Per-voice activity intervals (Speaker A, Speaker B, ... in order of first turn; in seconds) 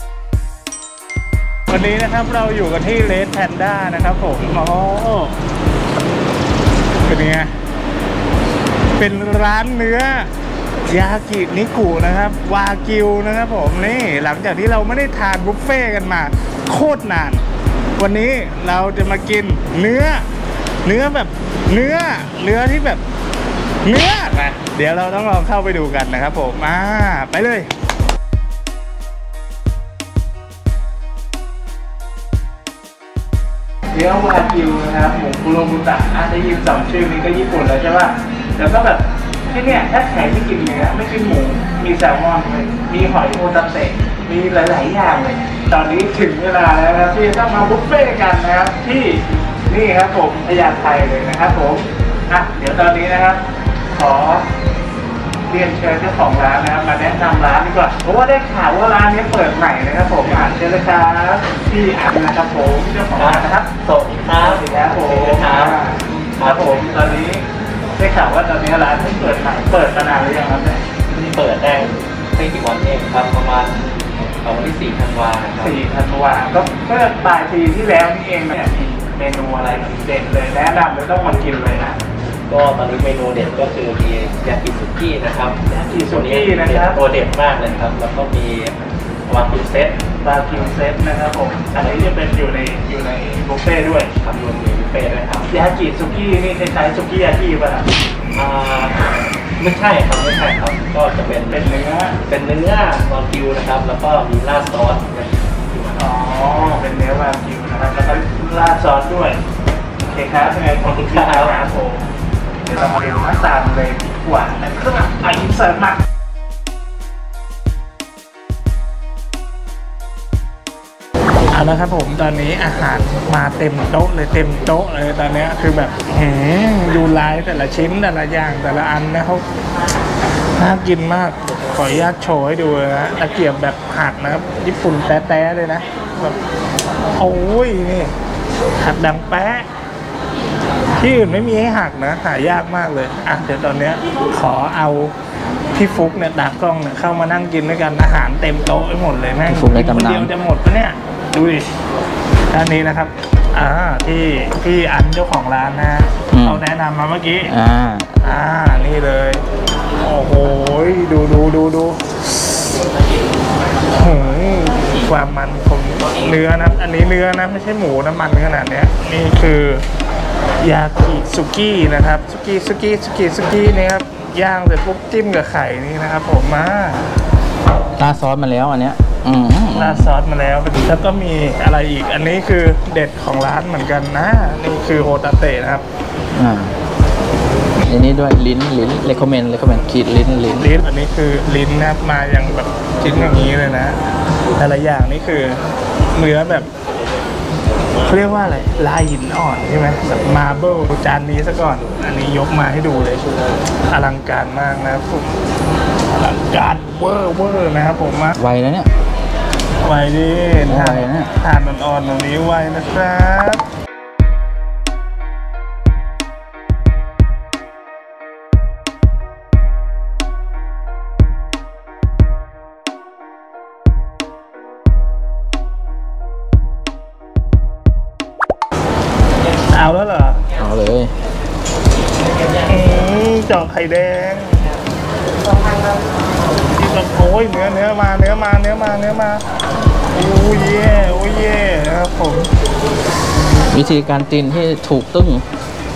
Speaker A: 1.7-5.4, 7.0-7.5, 9.0-10.3, 10.9-17.4, 18.0-20.2, 20.8-23.0, 23.8-27.7, 33.9-54.5, 55.5-63.7, 64.4-67.4, 68.0-70.8, 75.6-82.0, 85.7-87.0, 90.2-94.1, 95.5-97.9, 101.4-102.2, 106.0-109.4, 110.1-112.1, 112.7-116.0, 121.5-129.4, 130.6-136.4, 137.2-138.1, 138.8-139.7, 141.0-145.2, 145.7-151.7, 152.5-157.5, 158.2-159.4, 160.0-162.7, 163.9-169.8, 170.6-177.1, 179.7-185.8, 190.6-194.0, 194.6-195.6, 196.1-196.7, 198.0-203.3, 203.9-205.4, 206.2-208.3, 209.8-213.7, 229.7-230.4, 232.7-234.7, 236.7-239.4, 240.1-242.5
Speaker B: 63.1-65.8, 66.3-67.1, 71.1-73.8, 74.4-75.8, 82.5-90.0, 94.2-95.5, 98.3-101.7, 102.2-106.1, 110.8-111.7
Speaker C: 149.5-150.3, 156.3-156.6, 157.5-158.1, 178.0-180.1, 186.3-186.8, 187.9-190.7, 208.3-208.9, 210.7-211.3, 230.6-231.1, 243.7-245.4